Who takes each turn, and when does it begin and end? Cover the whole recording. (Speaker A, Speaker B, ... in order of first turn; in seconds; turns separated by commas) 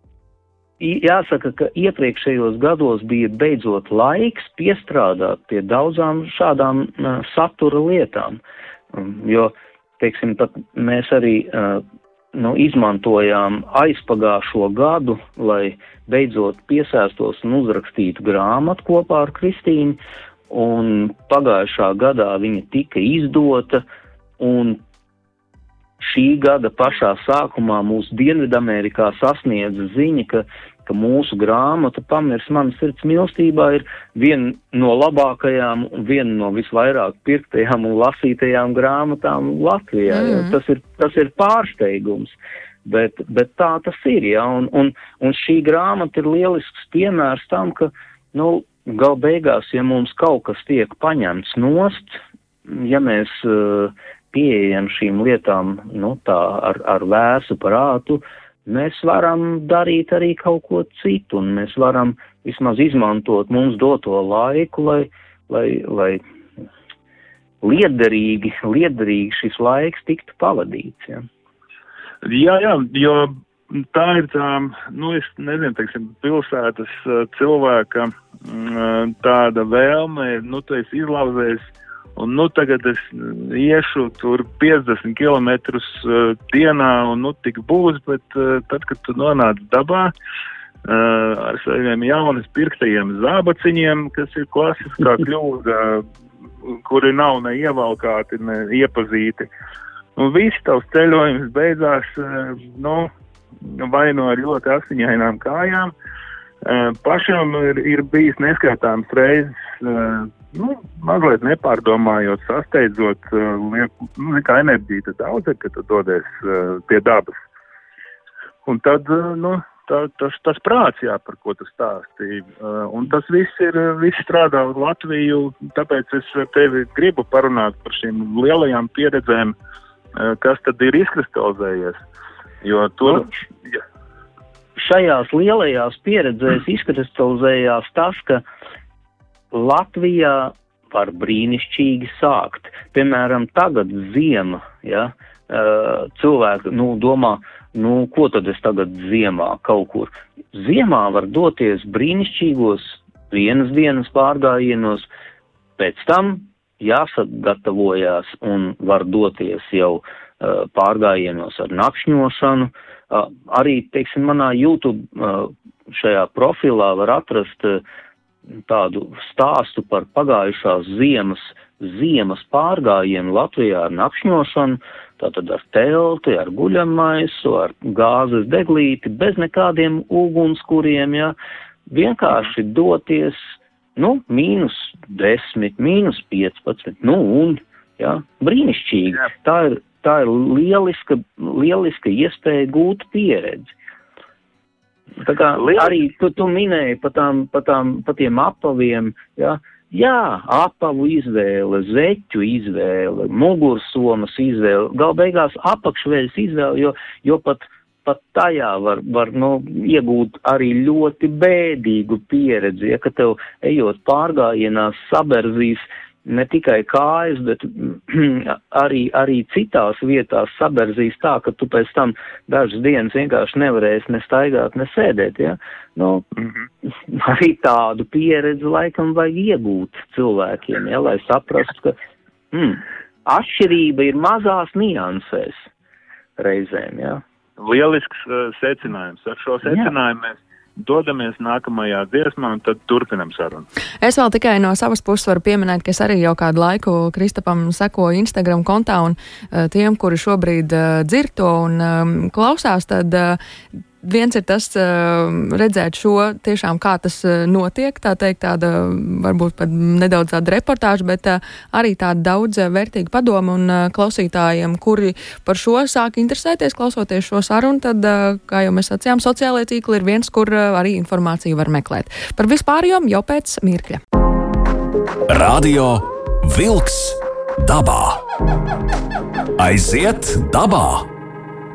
Speaker A: 0.8-8.4, Speaker A: 8.9-23.8, Speaker A: 24.4-24.8, Speaker A: 26.0-66.2, Speaker B: 40.1-40.5, Speaker A: 67.6-71.2, Speaker C: 72.2-90.1, Speaker C: 90.8-96.0, Speaker C: 96.6-99.5, Speaker C: 100.2-103.1, Speaker C: 103.6-105.9, Speaker C: 106.6-117.3, Speaker C: 118.6-129.5, Speaker C: 130.2-132.0, Speaker C: 132.6-133.8, Speaker A: 134.8-138.4, Speaker A: 139.5-155.1, Speaker A: 155.8-167.8, Speaker A: 168.7-181.3, Speaker A: 181.9-193.7, Speaker A: 195.2-226.3, Speaker C: 195.7-195.9, Speaker A: 227.1-232.0, Speaker A: 232.5-235.7, Speaker A: 236.4-237.2, Speaker C: 237.6-243.7, Speaker A: 239.7-239.9, Speaker B: 244.0-253.4, Speaker B: 254.0-274.0, Speaker D: 275.3-278.2, Speaker D: 279.6-281.1